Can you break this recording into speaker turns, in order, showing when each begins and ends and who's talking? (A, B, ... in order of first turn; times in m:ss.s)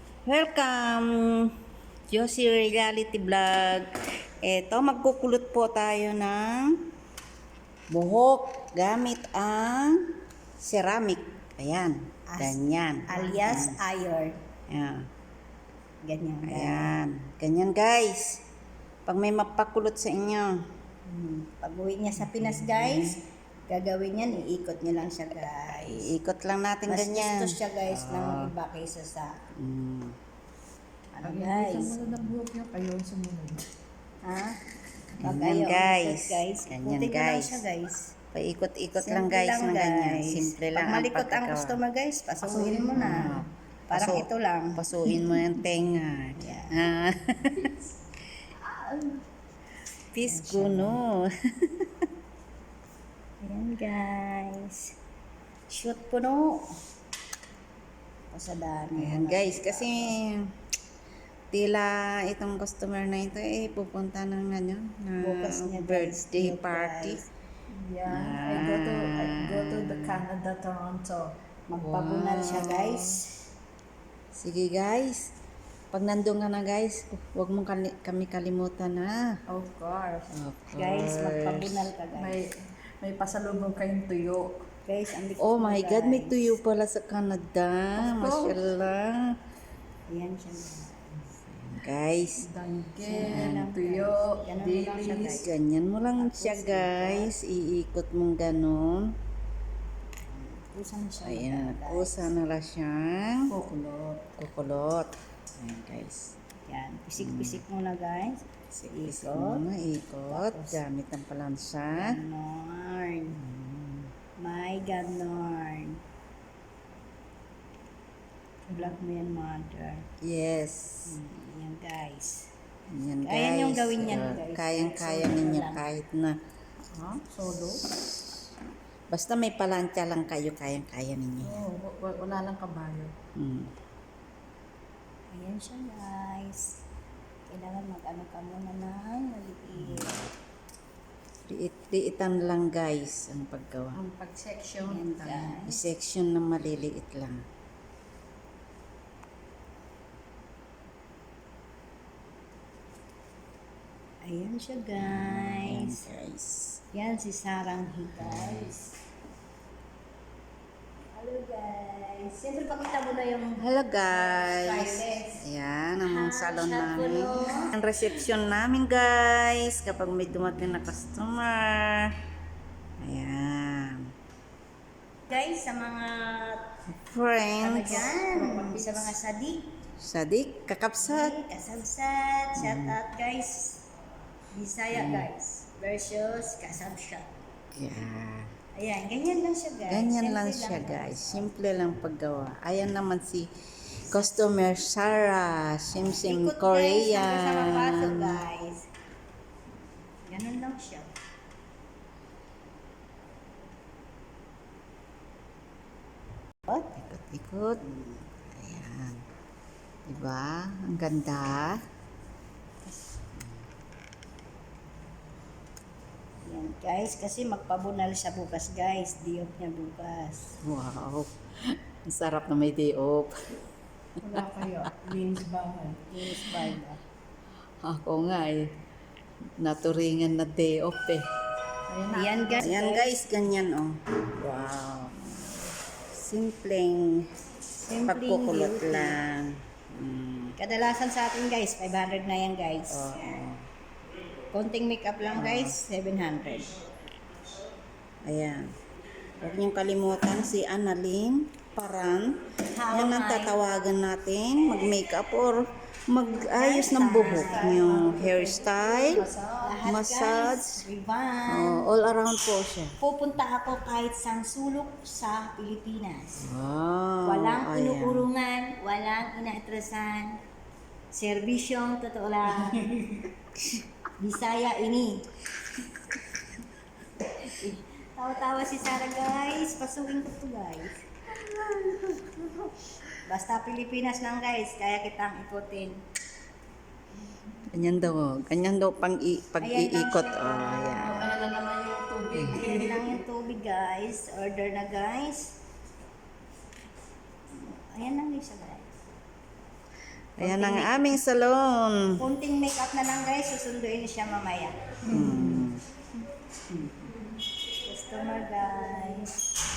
0:00.3-0:01.5 A
0:02.1-0:03.9 A
0:04.4-0:06.7 A
0:07.9-0:10.0 A
0:10.6-0:13.8 A
0:12.3-0:14.4 B
0:14.7-0:15.1 A
0:16.0-0:16.9 B
0:16.5-0:18.4 A
0:19.1-0:20.5 A
0:21.2-0:26.1 B
0:22.2-0:23.2 A
0:25.8-0:28.5 A
0:26.9-0:29.4 B
0:29.6-0:30.2 A
0:31.1-0:32.1 B
0:31.2-0:33.7 C
0:34.2-0:34.6 B
0:35.2-0:38.1 B
0:35.2-0:37.6 A
0:38.3-0:41.8 A
0:39.0-0:44.8 B
0:42.4-0:43.4 C
0:42.9-0:47.7 A
0:46.4-0:46.8 B
0:48.7-0:49.2 C
0:50.1-0:52.0 A
0:50.2-0:51.0 B
0:53.4-0:54.9 B
0:55.7-0:56.7 B
0:58.3-1:00.1 B
0:59.0-1:00.4 A
1:01.5-1:07.2 A
1:05.2-1:07.3 B
1:07.7-1:11.3 C
1:08.1-1:10.2 A
1:11.7-1:13.3 B
1:11.8-1:13.1 A
1:14.4-1:15.3 A
1:15.9-1:19.2 A
1:19.5-1:20.3 C
1:20.3-1:21.8 A
1:20.7-1:22.4 B
1:22.2-1:22.5 C
1:23.0-1:24.6 C
1:24.9-1:26.5 B
1:25.4-1:29.2 A
1:28.0-1:28.6 C
1:30.1-1:31.3 B
1:31.6-1:32.4 A
1:32.4-1:35.4 C
1:33.0-1:35.5 B
1:33.2-1:33.6 A
1:35.2-1:39.1 A
1:36.2-1:37.3 B
1:40.3-1:42.3 B
1:41.2-1:43.5 A
1:43.5-1:44.3 C
1:44.4-1:46.3 A
1:46.6-1:49.6 B
1:47.2-1:47.6 A
1:48.7-1:52.2 A
1:50.3-1:50.8 B
1:52.0-1:53.4 B
1:53.4-1:54.1 A
1:54.4-1:56.0 B
1:58.7-2:00.0 B
2:00.2-2:01.2 A
2:01.1-2:02.5 B
2:02.9-2:06.4 A
2:03.2-2:05.8 B
2:06.9-2:07.9 C
2:07.9-2:08.4 A
2:09.1-2:11.6 A
2:11.4-2:13.1 C
2:13.4-2:13.7 A
2:15.3-2:16.7 B
2:17.5-2:20.2 B
2:19.8-2:20.2 A
2:21.5-2:24.0 A
2:23.9-2:25.5 C
2:24.8-2:25.8 B
2:25.6-2:27.4 A
2:34.2-2:36.0 B
2:35.1-2:36.8 A
2:36.9-2:38.9 B
2:38.2-2:38.7 A
2:41.2-2:43.6 B
2:43.6-2:52.1 A
2:44.1-2:45.4 B
2:46.0-2:47.7 B
2:53.0-2:54.0 A
2:55.3-2:56.6 B
2:56.9-2:58.0 A
2:57.6-2:59.7 B
2:57.8-2:59.2 C
3:00.0-3:01.4 A
3:01.0-3:03.8 B
3:02.6-3:03.0 A
3:04.5-3:07.3 B
3:04.9-3:05.3 A
3:07.7-3:08.5 A
3:08.8-3:11.3 B
3:09.9-3:13.5 A
3:14.1-3:18.4 A
3:16.3-3:18.8 B
3:20.3-3:21.1 B
3:26.8-3:27.8 A
3:27.8-3:28.3 B
3:28.5-3:29.2 A
3:30.1-3:31.8 A
3:36.4-3:40.5 B
3:40.6-3:43.3 A
3:44.2-3:46.1 C
3:44.2-3:44.9 A
3:46.0-3:47.0 B
3:47.8-3:48.6 A
3:49.6-3:51.2 A
3:51.9-3:52.7 C
3:52.1-3:53.2 B
3:52.6-3:55.4 A
3:56.1-3:57.3 A
3:57.8-3:59.2 B
3:58.1-4:00.6 A
4:00.6-4:03.1 B
4:02.9-4:03.6 A
4:04.5-4:06.7 B
4:05.4-4:05.8 A
4:08.3-4:08.7 A
4:09.4-4:12.4 A
4:12.7-4:13.7 B
4:12.9-4:19.3 A
4:16.5-4:17.9 B
4:17.2-4:19.8 C
4:19.6-4:21.9 B
4:19.8-4:20.8 A
4:21.5-4:22.9 A
4:23.0-4:26.5 B
4:26.4-4:28.3 A
4:27.2-4:30.4 B
4:31.1-4:33.3 B
4:34.2-4:35.3 B
4:37.5-4:41.1 B
4:41.4-4:42.4 A
4:43.3-4:46.0 B
4:47.7-4:51.3 A
4:49.6-4:51.1 B
4:51.0-4:53.2 C
4:52.4-4:55.5 B
4:57.5-4:58.9 B
5:00.4-5:02.2 A
5:00.4-5:01.1 B
5:02.2-5:04.8 B
5:05.1-5:05.8 A
5:05.1-5:05.7 C
5:06.7-5:07.1 C
5:07.6-5:09.3 B